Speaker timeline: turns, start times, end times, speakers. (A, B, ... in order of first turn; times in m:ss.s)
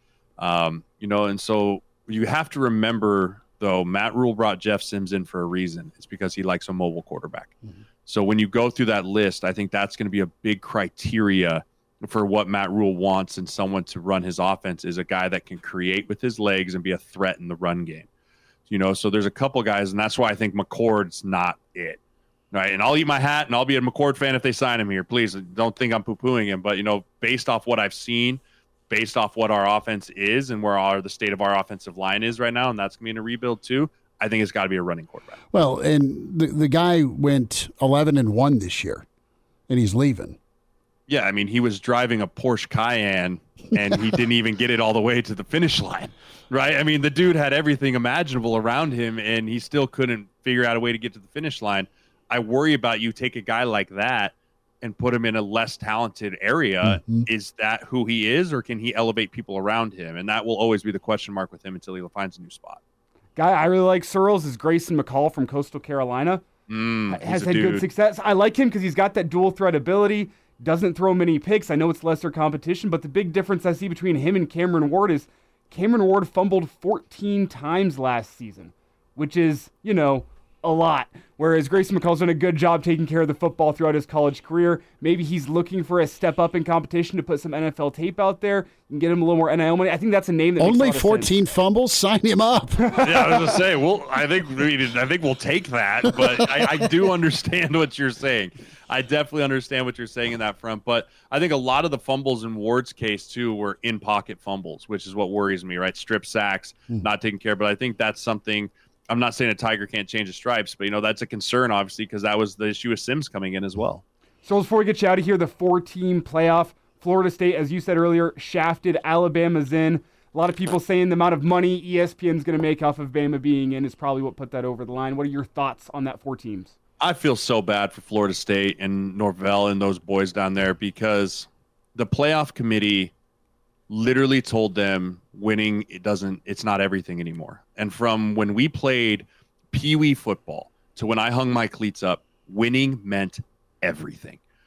0:00.4-0:07.6 A
0:08.1-0:18.1 A
0:18.7-0:22.0 A
0:22.5-0:35.4 A
0:35.5-0:39.0 B
0:39.7-0:40.4 B
0:41.1-1:02.8 A
0:56.8-0:57.3 B
1:03.4-1:06.4 C
1:06.7-1:07.9 A
1:07.1-1:31.3 C
1:30.6-1:33.6 B
1:33.0-1:54.0 A
1:54.4-2:06.7 C
2:07.0-2:13.1 A
2:13.9-2:24.4 A